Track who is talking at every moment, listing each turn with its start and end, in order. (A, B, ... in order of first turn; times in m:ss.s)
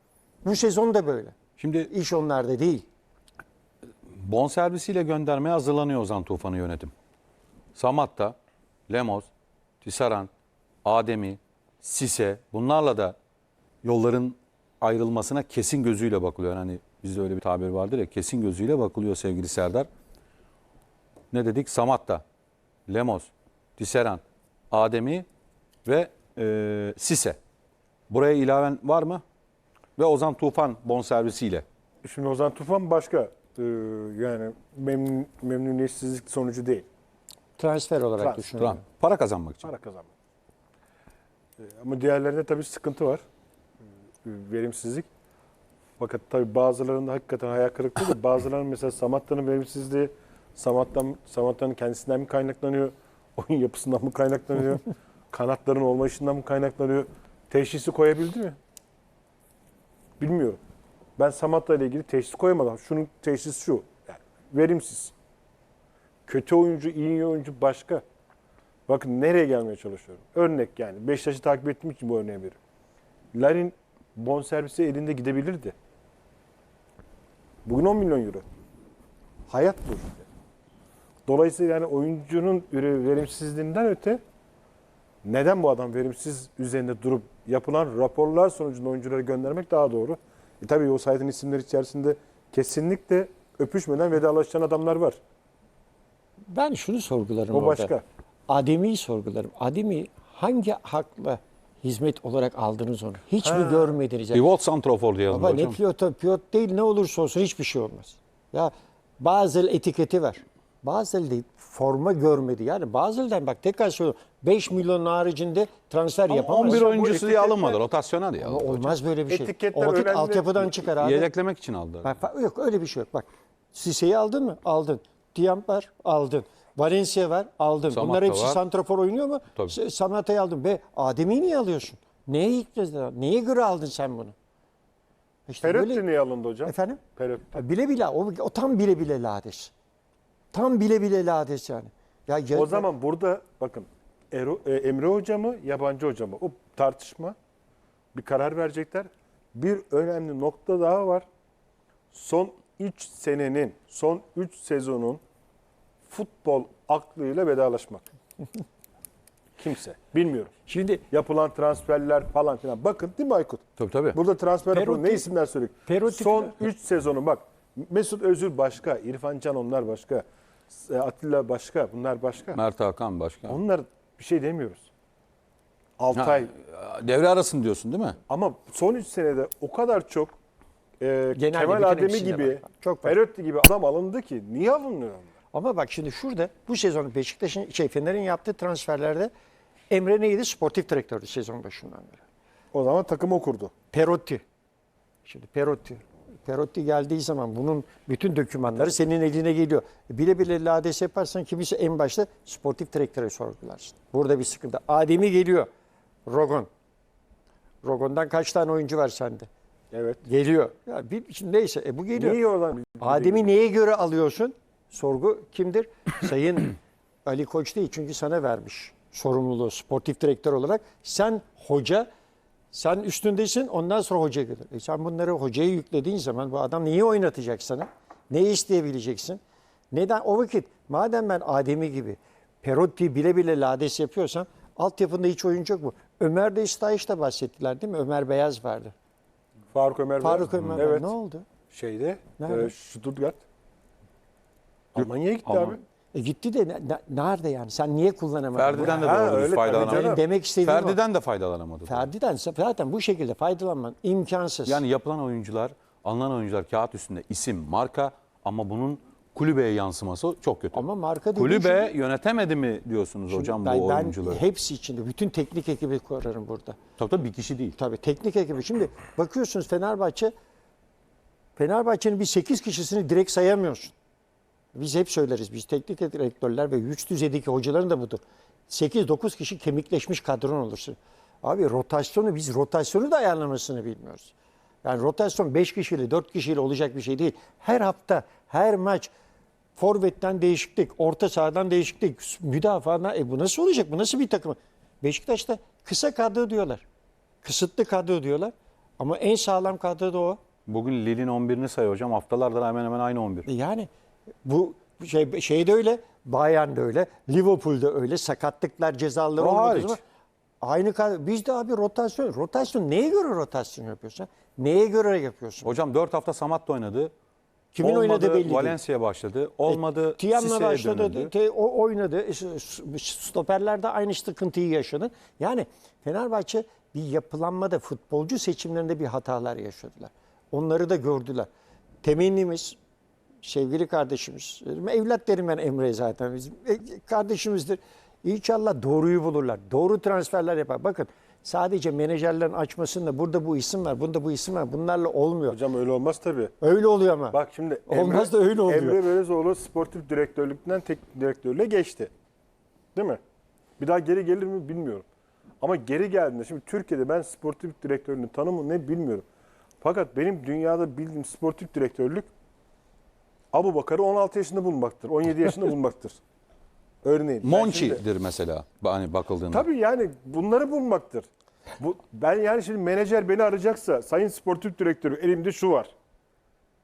0:00.4-0:01.4 A
0:01.6-0:01.9 B
0:01.9-0:02.9 A
0:04.1-0:06.9 B
0:07.7-0:08.4 B
0:08.9-0:09.3 B
0:09.8-0:10.3 B
0:10.8-0:13.2 B
0:13.8-0:19.9 B
0:21.3-0:22.2 B
0:22.9-0:25.2 B
0:25.8-0:27.4 B
0:28.1-0:29.2 B
0:30.0-0:31.6 B
0:32.0-0:36.8 C
0:37.6-0:38.8 A
0:38.2-0:38.5 C
0:38.6-0:39.7 B
0:39.6-0:40.1 C
0:41.6-0:43.2 C
0:44.2-0:45.0 C
0:46.0-0:58.6 C
1:00.2-1:00.6 C
1:01.2-1:05.1 C
1:06.3-1:08.0 C
1:08.9-1:12.6 C
1:13.3-1:15.7 C
1:17.6-1:18.4 C
1:19.5-1:20.3 C
1:21.3-1:24.2 C
1:25.2-1:35.2 C
1:36.5-1:37.9 A
1:37.5-1:38.0 C
1:38.5-1:44.5 A
1:43.4-1:43.9 C
1:44.3-1:45.8 B
1:45.3-1:56.9 A
1:56.3-1:59.0 B
1:56.5-1:57.8 C
1:58.4-2:01.3 A
1:59.3-2:00.7 C
2:01.0-2:02.1 B
2:02.0-2:14.3 A
2:07.9-2:08.6 B
2:15.5-2:16.0 A
2:15.6-2:17.6 C
2:16.6-2:17.0 A
2:17.5-2:19.7 A
2:20.5-2:22.9 A
2:22.5-2:27.4 C
2:28.1-2:31.2 C
2:32.1-2:35.2 C
2:36.1-2:38.0 C
2:39.6-2:40.5 C
2:40.7-2:41.0 A
2:41.1-2:52.6 C
2:43.8-2:44.2 B
2:44.7-2:45.3 A
2:45.9-2:46.6 A
2:52.5-2:53.6 B
2:53.5-2:54.9 C
2:56.0-2:56.5 C
2:56.1-2:58.2 B
2:58.3-3:00.3 C
3:01.0-3:05.3 C
3:01.4-3:03.2 A
3:05.5-3:09.3 A
3:09.9-3:12.2 A
3:12.7-3:13.7 C
3:13.9-3:14.4 A
3:15.2-3:25.7 A
3:26.2-3:26.7 A
3:27.8-3:29.5 A
3:29.9-3:30.2 C
3:30.2-3:32.4 A
3:32.1-3:33.5 C
3:33.0-3:42.1 A
3:42.7-3:49.4 A
3:49.9-3:58.9 A
3:59.7-4:01.1 C
4:00.2-4:01.5 A
4:00.5-4:00.8 B
4:01.7-4:03.4 C
4:02.4-4:02.7 A
4:04.9-4:05.8 C
4:05.0-4:05.8 B
4:06.1-4:08.9 A
4:08.6-4:12.1 B
4:08.8-4:10.2 C
4:09.7-4:11.0 A
4:11.8-4:14.8 A
4:14.6-4:20.8 B
4:20.7-4:21.9 A
4:21.3-4:24.4 B
4:23.3-4:26.8 A
4:27.0-4:27.8 B
4:27.8-4:30.3 A
4:31.6-4:33.9 A
4:34.7-4:49.1 A
4:49.8-4:56.8 A
4:57.4-5:00.4 A
5:00.7-5:03.5 B
5:03.4-5:03.9 A
5:04.4-5:10.0 A
5:09.4-5:10.0 B
5:10.6-5:15.8 A
5:15.6-5:17.1 B
5:17.7-5:18.8 A
5:17.8-5:21.3 B
5:19.6-5:31.5 A
5:32.0-5:32.8 A
5:33.4-5:45.6 A
5:45.5-5:46.5 C
5:46.6-5:47.4 A
5:47.3-5:52.1 C
5:47.9-5:49.0 A
5:52.9-5:53.2 C
5:53.8-5:55.0 C
5:55.6-5:59.2 C
5:59.8-6:02.3 C
6:03.5-6:06.2 C
6:07.0-6:08.0 C
6:07.4-6:09.6 B
6:09.5-6:11.2 C
6:11.8-6:15.9 C